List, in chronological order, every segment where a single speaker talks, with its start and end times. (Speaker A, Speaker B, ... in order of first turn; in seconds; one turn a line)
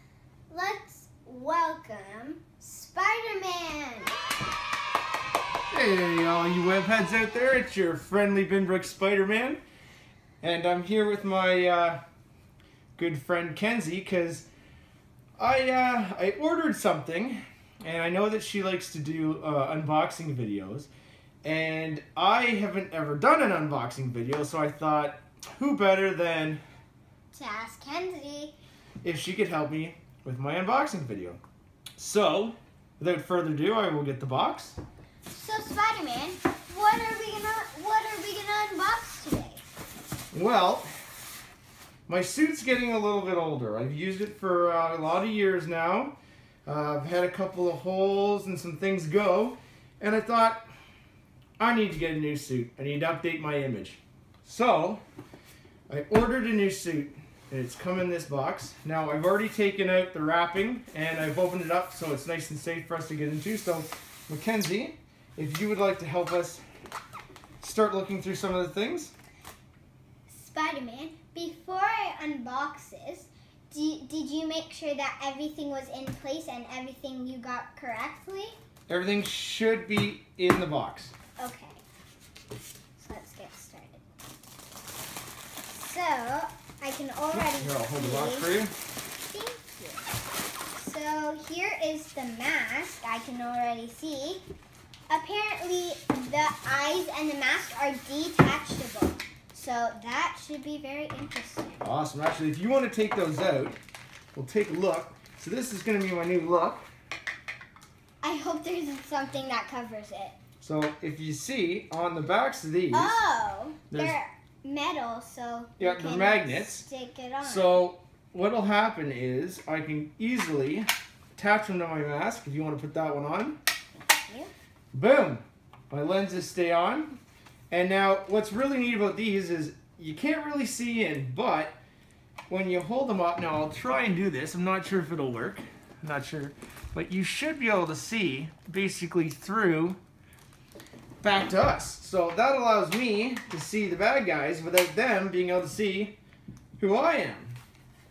Speaker A: 0.5-4.1
Speaker B: 5.7-9.6
Speaker B: 10.4-12.0
Speaker B: 12.9-14.5
Speaker B: 15.4-20.9
Speaker B: 21.4-26.6
Speaker A: 27.3-28.5
Speaker B: 29.0-31.4
Speaker B: 32.0-34.8
Speaker A: 35.3-39.6
Speaker B: 40.3-40.9
Speaker B: 42.1-50.6
Speaker B: 51.6-55.0
Speaker B: 55.9-66.6
Speaker B: 67.6-69.1
Speaker A: 70.3-78.6
Speaker B: 78.9-81.1
Speaker A: 81.4-81.8
Speaker A: 83.0-84.0
Speaker A: 85.7-88.5
Speaker B: 87.3-88.7
Speaker A: 89.2-90.0
Speaker A: 90.7-94.4
Speaker A: 95.1-101.8
Speaker B: 101.8-103.8
Speaker B: 104.3-106.9
Speaker A: 108.2-110.4
Speaker B: 110.6-113.2
Speaker A: 112.9-117.8
Speaker B: 113.9-114.2
Speaker B: 115.8-116.8
Speaker B: 117.4-123.6
Speaker B: 124.9-127.2
Speaker B: 127.7-131.8
Speaker B: 132.5-140.0
Speaker B: 141.2-146.2
Speaker B: 146.8-147.6